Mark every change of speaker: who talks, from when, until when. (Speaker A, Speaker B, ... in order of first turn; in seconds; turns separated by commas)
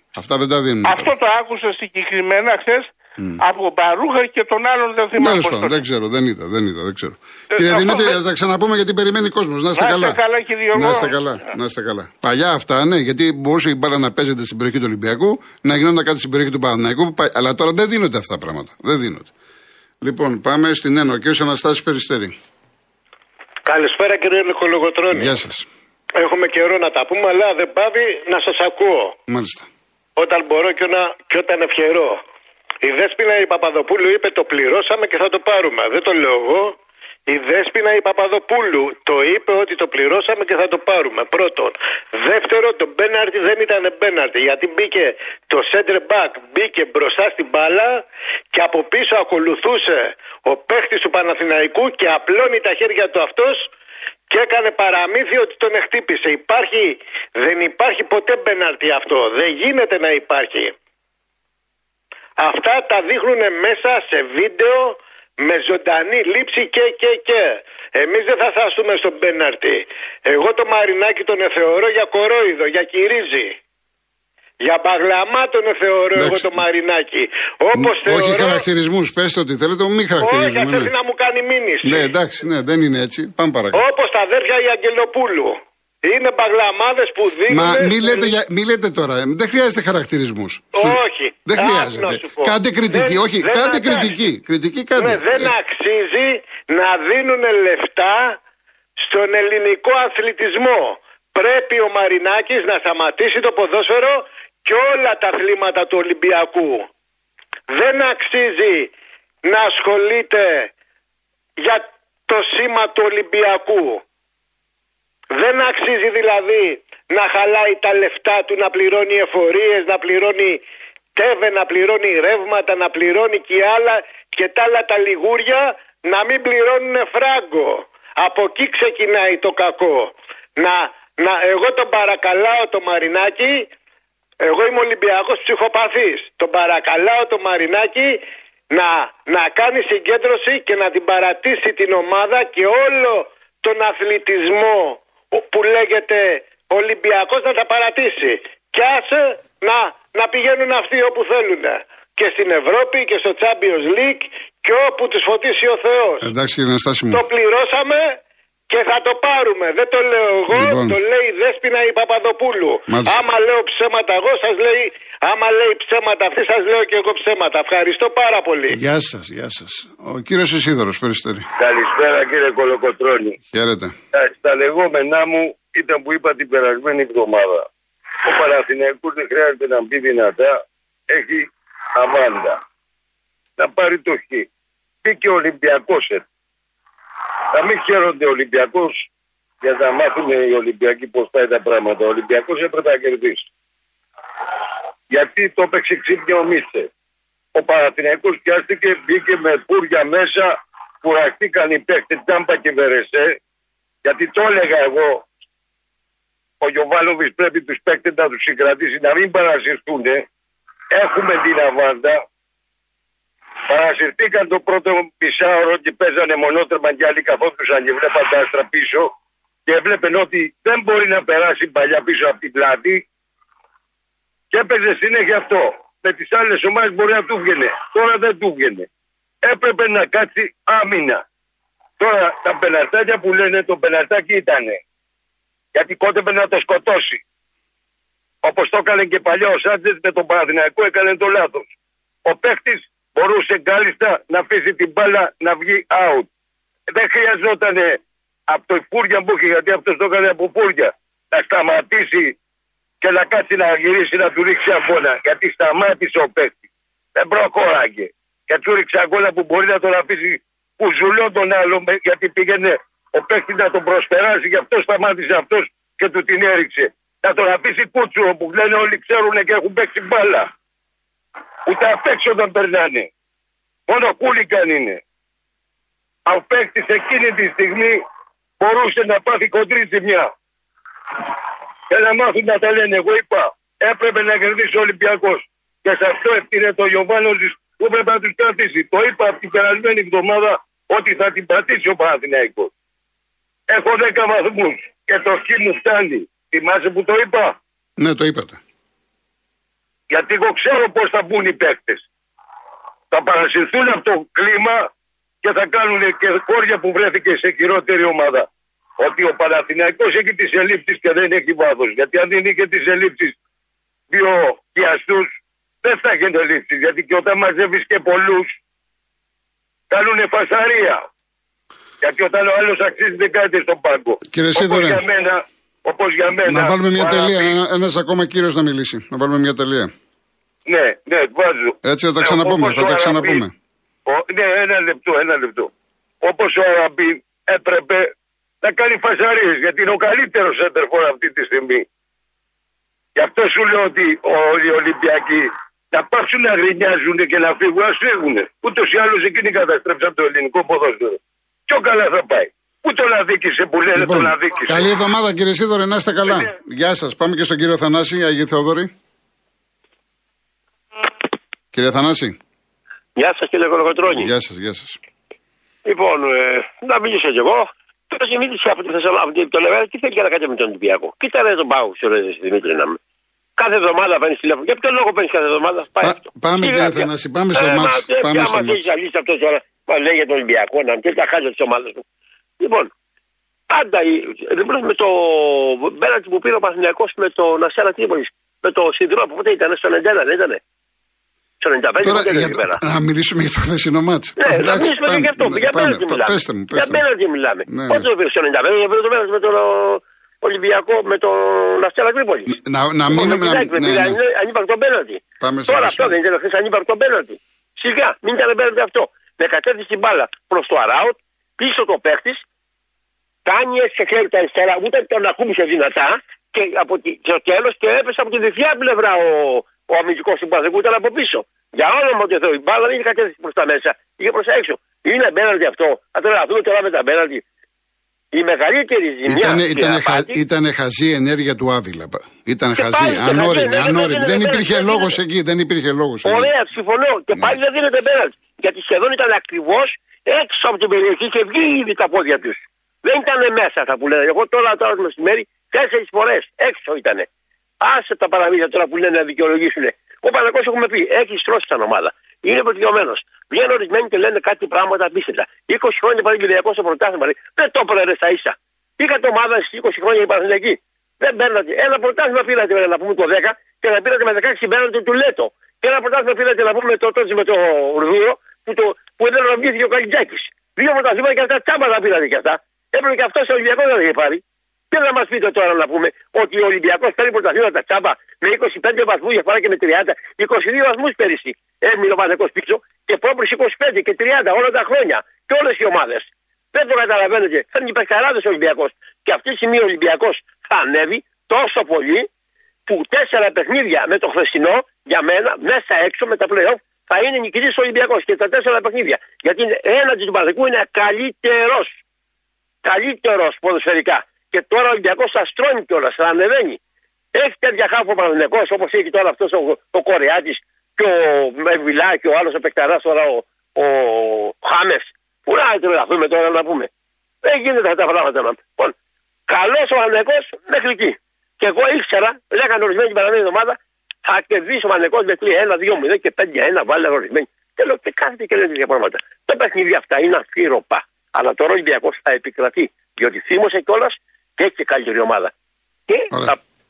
Speaker A: 0.1-1.1, Speaker B: 0.8-5.8, Speaker A: 5.2-10.2, Speaker B: 7.5-8.2, Speaker B: 9.7-11.5, Speaker A: 10.7-19.3, Speaker A: 20.0-22.3, Speaker C: 23.6-25.3, Speaker A: 25.1-25.6, Speaker C: 26.2-29.1, Speaker A: 29.3-29.6, Speaker C: 30.1-32.2, Speaker C: 32.8-36.7, Speaker C: 37.3-53.7, Speaker C: 54.3-60.7, Speaker C: 62.4-73.6, Speaker C: 74.6-78.6, Speaker A: 76.1-76.6, Speaker A: 77.7-80.9, Speaker C: 80.2-82.1, Speaker A: 81.8-83.8, Speaker C: 83.7-88.3, Speaker A: 87.5-95.5, Speaker C: 90.7-94.2, Speaker C: 95.0-98.4, Speaker C: 99.0-106.9, Speaker C: 107.7-108.9, Speaker C: 109.4-110.7, Speaker C: 111.6-114.0, Speaker C: 115.3-120.6, Speaker C: 121.1-133.7, Speaker C: 134.4-138.2, Speaker C: 138.7-156.3, Speaker A: 156.2-157.2, Speaker C: 157.1-158.1, Speaker C: 158.7-168.8, Speaker A: 160.5-161.0, Speaker A: 162.9-163.2, Speaker A: 168.7-171.5, Speaker D: 171.6-173.3, Speaker A: 173.5-173.9, Speaker D: 174.1-177.6, Speaker D: 178.3-180.5, Speaker D: 181.1-181.4, Speaker D: 182.0-182.6, Speaker D: 183.6-184.4, Speaker D: 185.0-186.2, Speaker D: 187.6-189.0, Speaker D: 189.6-193.4, Speaker D: 195.2-196.8, Speaker D: 197.6-203.3, Speaker D: 204.0-205.2, Speaker D: 206.6-210.2, Speaker D: 210.9-212.2, Speaker D: 213.7-219.1, Speaker D: 219.7-223.0, Speaker D: 224.5-228.8, Speaker D: 229.4-231.2, Speaker D: 232.0-234.8, Speaker D: 235.7-237.2, Speaker D: 238.4-241.7, Speaker D: 242.2-246.3, Speaker D: 247.0-248.0, Speaker D: 248.5-252.3, Speaker D: 253.0-256.6, Speaker D: 257.1-270.5, Speaker D: 271.7-273.1, Speaker D: 273.9-275.0, Speaker D: 276.3-278.0, Speaker D: 278.6-280.3, Speaker D: 281.9-292.7, Speaker D: 293.7-297.5, Speaker A: 298.0-298.6, Speaker D: 300.1-302.0, Speaker D: 303.1-304.8, Speaker D: 305.4-308.4, Speaker D: 309.0-313.3, Speaker D: 314.1-315.2, Speaker D: 315.8-318.5, Speaker D: 319.9-320.9, Speaker D: 322.0-325.3, Speaker A: 324.3-325.0, Speaker D: 325.9-327.5, Speaker A: 326.4-329.9, Speaker D: 330.7-333.4, Speaker A: 331.8-333.5, Speaker D: 334.1-335.7, Speaker D: 336.2-338.0, Speaker D: 338.6-341.8, Speaker D: 343.2-351.1, Speaker D: 351.7-354.9, Speaker A: 353.9-358.9, Speaker A: 361.7-362.4, Speaker E: 363.1-364.3, Speaker A: 364.0-365.0, Speaker E: 365.8-373.0, Speaker E: 373.6-382.0, Speaker A: 376.0-378.9, Speaker E: 382.6-382.9, Speaker E: 383.7-390.6, Speaker E: 391.6-392.8, Speaker A: 392.0-397.1, Speaker E: 394.4-402.5, Speaker A: 397.6-398.1, Speaker A: 402.5-404.2, Speaker E: 403.1-412.4, Speaker A: 405.4-406.2, Speaker E: 413.4-427.4, Speaker E: 428.3-430.4, Speaker A: 429.2-436.5, Speaker E: 432.7-435.2, Speaker E: 436.2-447.3, Speaker E: 447.8-492.3, Speaker E: 492.9-502.0, Speaker E: 502.8-506.8, Speaker E: 507.3-516.9, Speaker E: 517.4-518.9, Speaker E: 519.5-535.5, Speaker E: 536.1-536.5